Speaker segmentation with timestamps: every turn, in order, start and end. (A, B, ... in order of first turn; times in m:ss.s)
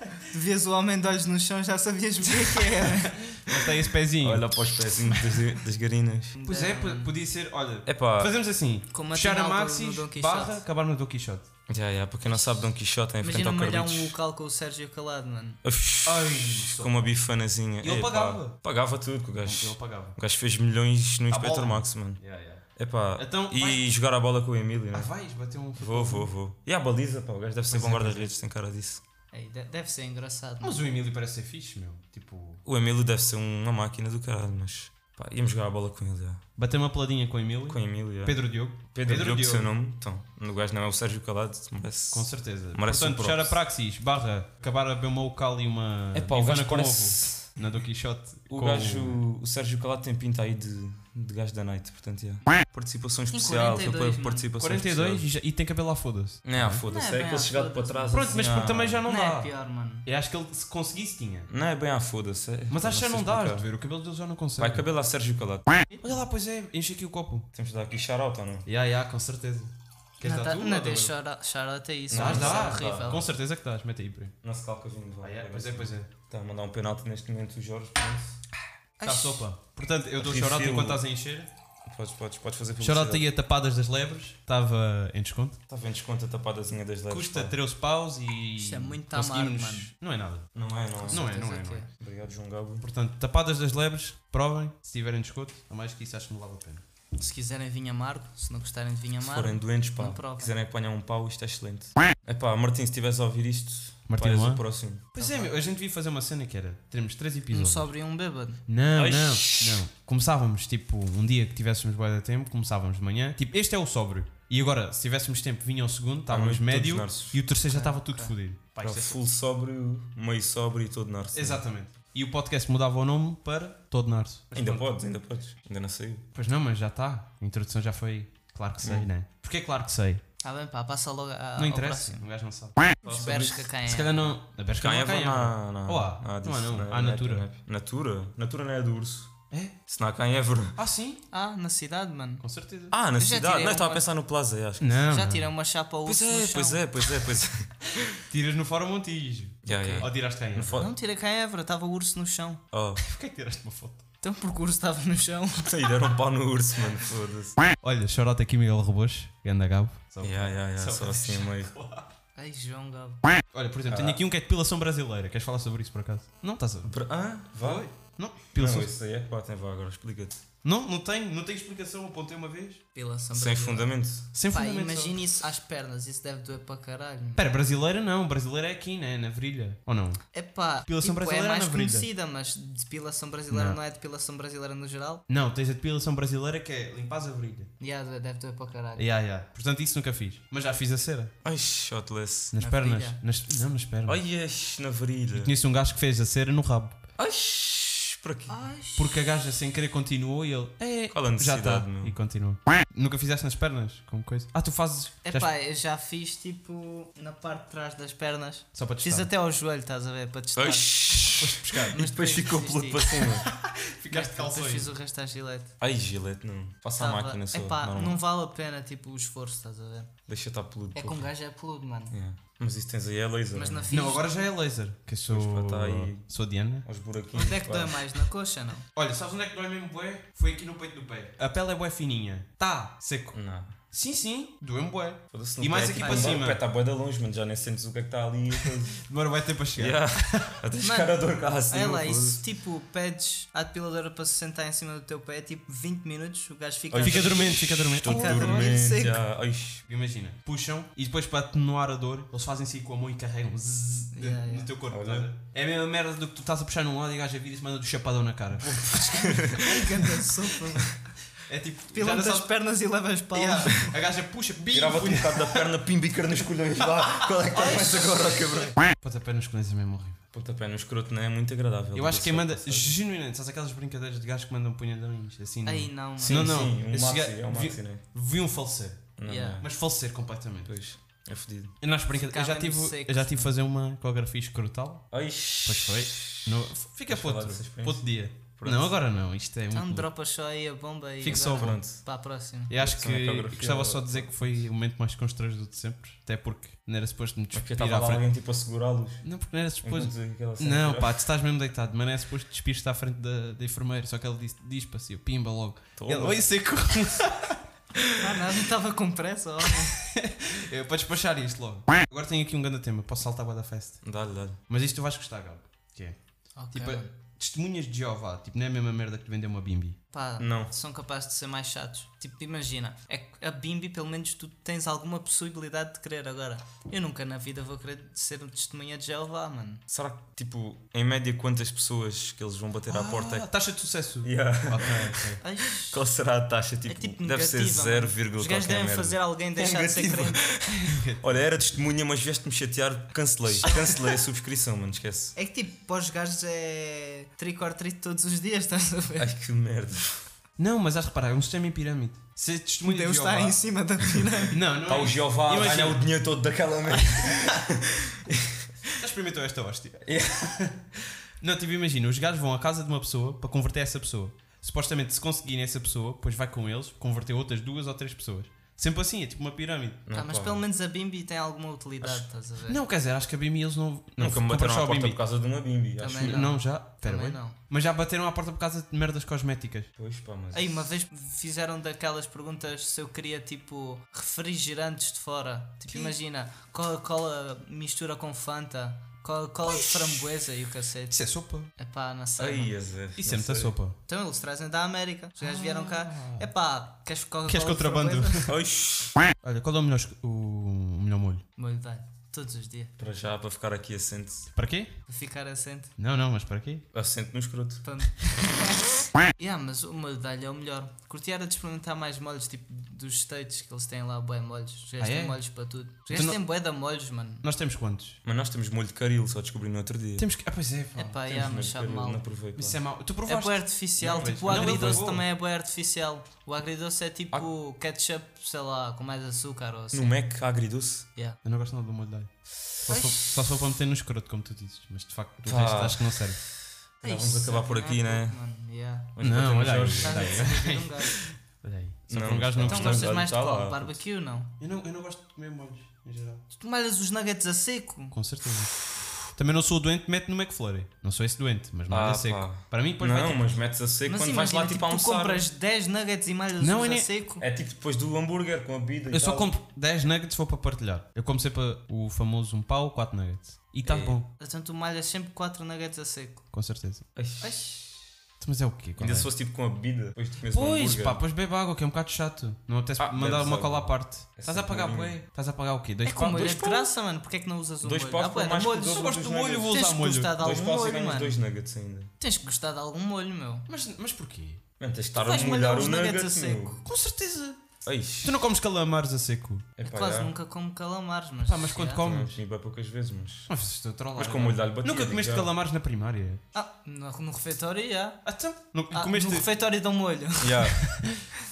0:00.3-0:03.2 A
0:02.4-0:04.5 B
0:04.2-0:06.4 C
0:06.4-0:07.1 A
0:06.4-0:11.5 B
0:07.8-0:08.3 C
0:08.9-0:10.6 A
0:11.7-0:14.1 C
0:12.2-0:12.7 A
0:13.2-0:15.6 A
0:15.6-0:22.2 C
0:16.0-0:17.1 B
0:17.8-0:18.6 B
0:19.4-0:20.2 B
0:21.3-0:22.6 B
0:22.8-0:25.1 C
0:23.2-0:23.9 B
0:24.9-0:26.3 B
0:25.8-0:29.0 C
0:27.7-0:28.3 B
0:29.3-0:30.8 A
0:30.6-0:32.6 B
0:32.6-0:36.4 C
0:36.6-0:39.7 B
0:37.7-0:43.6 C
0:42.1-0:49.2 B
0:46.1-0:47.5 C
0:48.5-0:55.3 C
0:53.3-0:54.5 A
0:54.6-0:56.8 B
0:56.4-0:59.0 C
0:56.9-0:58.5 A
0:58.1-0:59.5 B
0:59.0-1:00.0 A
1:00.0-1:01.5 B
1:01.5-1:03.7 C
1:02.7-1:04.8 B
1:04.6-1:05.7 C
1:05.9-1:06.2 A
1:06.0-1:07.5 B
1:07.5-1:08.6 C
1:08.6-1:11.1 B
1:10.2-1:13.2 A
1:12.1-1:13.2 C
1:12.1-1:14.3 B
1:14.4-1:18.4 C
1:15.2-1:16.1 B
1:19.0-1:19.4 A
1:19.0-1:21.5 B
1:20.2-1:21.0 C
1:21.8-1:23.3 C
1:22.8-1:25.6 B
1:25.7-1:27.5 C
1:27.1-1:30.5 B
1:28.6-1:29.9 A
1:30.5-1:31.3 C
1:31.0-1:31.9 A
1:31.1-1:31.9 B
1:31.9-1:32.8 C
1:32.8-1:36.8 B
1:37.2-1:40.5 A
1:39.2-1:45.1 C
1:44.1-1:47.9 B
1:45.2-1:45.5 A
1:47.5-1:48.6 A
1:48.7-1:59.2 B
1:48.9-1:49.8 C
1:56.3-1:57.4 C
1:57.7-1:58.3 A
1:58.8-2:01.6 C
2:01.3-2:04.9 B
2:04.5-2:06.2 C
2:06.3-2:10.2 B
2:08.8-2:09.1 C
2:10.4-2:12.2 A
2:11.6-2:12.8 B
2:13.0-2:14.4 A
2:13.0-2:13.7 C
2:13.9-2:17.4 B
2:14.8-2:20.8 C
2:19.5-2:19.8 B
2:20.8-2:21.2 B
2:21.3-2:22.4 A
2:22.4-2:22.9 B
2:22.9-2:25.0 C
2:23.1-2:24.0 A
2:24.8-2:25.5 B
2:25.1-2:26.9 A
2:26.0-2:28.2 C
2:28.3-2:30.9 B
2:29.6-2:30.9 C
2:29.7-2:30.1 A
2:30.7-2:32.6 A
2:32.7-2:33.0 C
2:33.0-2:34.0 B
2:34.2-2:36.0 A
2:35.6-2:37.6 C
2:37.8-2:42.1 B
2:40.2-2:41.7 C
2:42.4-2:43.2 A
2:43.5-2:47.0 B
2:43.9-2:44.2 C
2:46.8-2:47.9 C
2:47.6-2:48.9 B
2:48.6-2:50.4 C
2:50.6-2:52.8 B
2:52.9-2:53.9 A
2:53.3-2:54.3 C
2:54.3-2:55.2 B
2:54.5-2:57.4 A
2:57.4-3:00.3 B
3:00.3-3:05.2 A
3:00.8-3:02.1 B
3:03.5-3:03.8 B
3:05.3-3:07.7 B
3:07.8-3:09.0 A
3:09.0-3:11.3 B
3:11.4-3:12.5 C
3:12.5-3:14.2 B
3:12.6-3:13.2 A
3:14.0-3:15.5 C
3:15.3-3:17.0 B
3:17.2-3:18.6 C
3:18.5-3:19.2 A
3:19.0-3:25.5 B
3:21.1-3:22.2 C
3:25.2-3:31.3 A
3:28.7-3:29.3 B
3:30.6-3:33.4 C
3:31.3-3:32.0 B
3:31.9-3:33.1 A
3:33.3-3:34.9 B
3:34.1-3:35.7 A
3:35.8-3:38.2 C
3:37.0-3:40.1 A
3:40.3-3:41.3 C
3:40.9-3:42.1 A
3:42.1-3:43.9 C
3:43.5-3:44.3 A
3:43.9-3:46.8 B
3:45.3-3:46.2 C
3:46.8-3:48.0 C
3:47.3-3:48.8 A
3:48.9-3:56.6 B
3:53.3-3:53.7 C
3:55.3-3:59.0 C
3:55.9-3:56.4 A
3:59.0-4:00.6 B
3:59.8-4:02.4 C
4:00.8-4:09.2 A
4:06.9-4:09.8 C
4:07.0-4:08.8 B
4:09.9-4:18.8 B
4:14.1-4:14.7 A
4:14.9-4:15.3 C
4:18.6-4:20.0 C
4:19.2-4:20.9 A
4:21.4-4:22.5 B
4:21.9-4:23.9 A
4:23.3-4:25.7 B
4:24.7-4:28.8 C
4:26.9-4:30.2 B
4:30.3-4:32.9 C
4:31.9-4:40.7 B
4:35.6-4:36.5 A
4:36.2-4:38.0 C
4:39.2-4:39.7 C
4:39.2-4:39.6 A
4:40.6-4:41.7 C
4:41.8-4:45.1 B
4:42.1-4:43.5 A
4:45.1-4:49.0 C
4:45.6-4:50.1 B
4:49.7-4:52.7 A
4:51.2-4:52.0 B
4:51.2-4:52.0 C
4:52.7-4:58.2 B
4:52.8-4:54.6 C
4:57.5-4:59.2 C
4:59.2-5:07.6 B
4:59.8-5:01.2 C
5:06.0-5:06.4 C
5:08.2-5:10.0 A
5:10.0-5:14.1 B
5:14.0-5:14.6 C
5:14.7-5:16.2 B
5:16.6-5:17.1 A
5:16.7-5:20.0 B
5:20.1-5:29.8 A
5:20.4-5:20.7 C
5:29.9-5:33.5 C
5:32.9-5:35.4 B
5:34.2-5:45.3 C
5:35.4-5:36.0 A
5:36.9-5:40.4 A
5:40.7-5:41.2 B
5:43.6-5:43.9 A
5:45.4-5:49.3 A
5:49.2-5:50.2 C
5:50.6-5:53.6 B
5:52.8-5:54.6 A
5:54.5-5:56.1 B
5:54.8-5:58.9 C
5:56.9-5:57.4 B
5:58.9-6:00.8 B
6:00.0-6:00.6 C
6:01.4-6:10.0 B
6:10.0-6:10.6 C
6:10.1-6:12.8 A
6:12.7-6:15.2 B
6:14.2-6:16.5 C
6:16.0-6:17.6 A
6:16.1-6:19.9 B
6:20.0-6:20.9 C
6:20.5-6:31.2 A
6:25.9-6:26.1 B
6:29.6-6:30.4 B
6:31.1-6:31.7 B
6:31.8-6:32.8 A
6:32.4-6:33.7 C
6:33.2-6:34.0 B
6:34.1-6:38.5 A
6:35.4-6:36.5 B
6:37.4-6:38.5 B
6:38.4-6:39.2 C
6:39.4-6:41.4 B
6:41.6-6:42.9 A
6:43.0-6:44.5 C
6:44.5-6:45.0 B
6:45.1-6:45.9 A
6:46.0-6:46.8 B
6:46.9-6:47.8 C
6:47.8-6:57.4 A
6:55.0-6:55.5 B
6:56.1-6:56.4 B
6:57.4-6:58.2 B
6:58.2-7:00.3 C
7:00.2-7:01.2 B
7:01.0-7:02.2 A
7:01.2-7:02.8 C
7:02.6-7:05.2 B
7:03.2-7:10.1 A
7:04.0-7:05.1 C
7:09.9-7:11.1 C
7:11.4-7:16.4 B
7:12.9-7:13.2 A
7:15.4-7:18.4 C
7:17.0-7:19.1 A
7:19.1-7:20.5 C
7:19.2-7:23.1 B
7:20.0-7:21.2 A
7:22.1-7:24.0 C
7:22.6-7:24.5 A
7:24.6-7:26.4 B
7:26.6-7:28.2 A
7:28.1-7:33.5 B
7:31.9-7:35.4 C
7:34.0-7:37.4 A
7:36.6-7:37.1 B
7:37.4-7:39.5 C
7:39.1-7:44.3 B
7:43.8-7:44.2 C
7:44.4-7:46.4 A
7:46.5-7:47.1 B
7:47.2-7:47.8 C
7:47.4-7:47.9 A
7:48.4-7:49.3 B
7:49.0-7:51.2 C
7:50.5-7:56.8 B
7:53.0-7:55.2 C
7:56.0-7:59.1 A
7:56.4-7:56.8 C
7:57.8-7:59.7 C
7:58.9-8:00.3 B
7:59.7-8:01.4 A
8:00.4-8:02.1 C
8:02.2-8:03.7 A
8:03.7-8:04.6 B
8:04.8-8:06.8 C
8:05.1-8:06.8 A
8:06.8-8:09.7 B
8:07.8-8:08.4 C
8:09.8-8:10.3 C
8:09.8-8:12.0 A
8:11.4-8:12.3 B
8:12.0-8:13.5 C
8:13.5-8:16.4 B
8:14.1-8:15.5 C
8:16.5-8:18.3 A
8:18.2-8:19.5 B
8:18.9-8:20.7 A
8:20.4-8:20.9 C
8:20.9-8:21.2 B